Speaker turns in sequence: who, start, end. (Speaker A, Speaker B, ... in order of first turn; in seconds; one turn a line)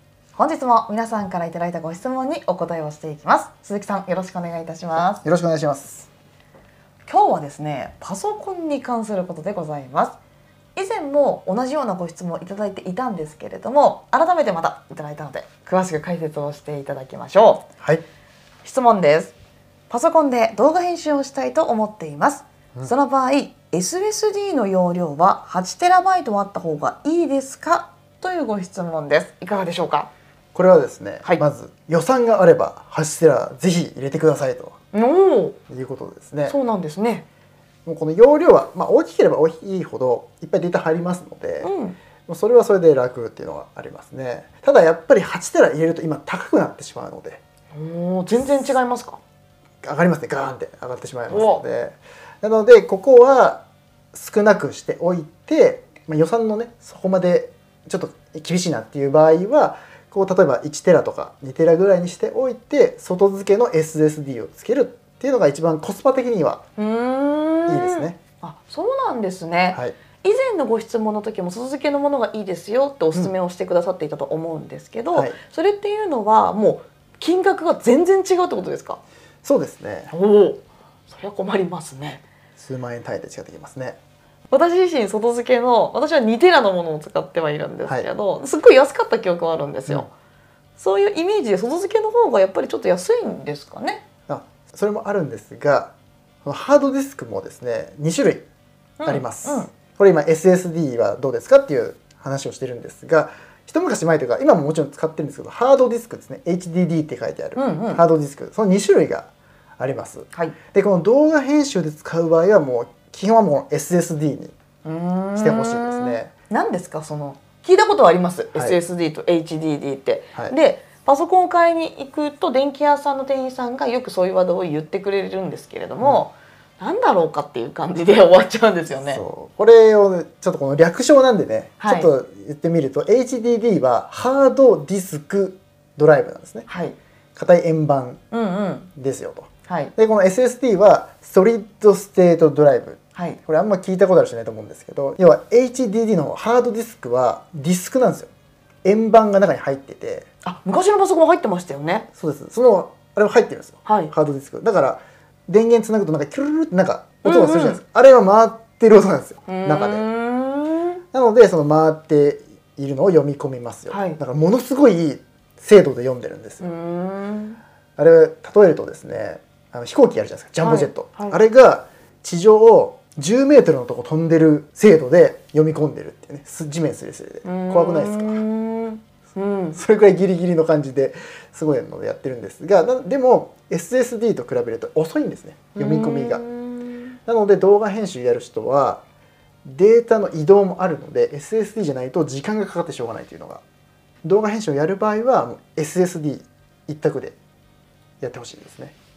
Speaker A: 0.3-5.2
Speaker B: 5.0-6.1
Speaker A: 7.0-10.2
Speaker A: 10.8-17.6
Speaker A: 18.6-19.3
Speaker A: 19.9-30.1
Speaker B: 30.5-34.8
Speaker A: 34.9-35.6
Speaker B: 35.7-36.5
Speaker A: 36.5-37.2
Speaker B: 37.8-41.7
Speaker A: 41.6-42.0
Speaker B: 42.3-47.4
Speaker A: 47.7-49.2
Speaker B: 49.8-66.6
Speaker A: 51.3-51.6
Speaker A: 66.8-79.0
Speaker B: 67.7-68.2
Speaker B: 79.4-80.1
Speaker A: 80.1-82.2
Speaker B: 82.6-84.0
Speaker A: 84.5-90.1
Speaker A: 90.8-94.0
Speaker B: 94.3-95.9
Speaker B: 96.5-98.5
Speaker A: 99.0-99.7
Speaker B: 99.0-114.5
Speaker A: 107.5-108.0
Speaker A: 114.8-129.2
Speaker B: 115.4-116.3
Speaker B: 129.1-136.7
Speaker A: 131.8-132.1
Speaker A: 136.7-137.0
Speaker B: 137.3-138.2
Speaker A: 138.3-138.9
Speaker B: 139.0-148.3
Speaker A: 139.7-139.9
Speaker B: 148.8-150.3
Speaker A: 150.4-152.1
Speaker B: 152.2-160.1
Speaker A: 153.8-154.1
Speaker A: 157.2-157.8
Speaker A: 159.5-161.0
Speaker B: 161.1-166.7
Speaker A: 163.9-164.2
Speaker A: 166.6-167.6
Speaker B: 168.0-178.4
Speaker A: 170.6-171.4
Speaker A: 177.4-179.8
Speaker B: 179.8-186.4
Speaker A: 185.8-187.2
Speaker B: 187.2-189.0
Speaker B: 189.7-193.6
Speaker B: 194.2-197.3
Speaker B: 198.2-198.9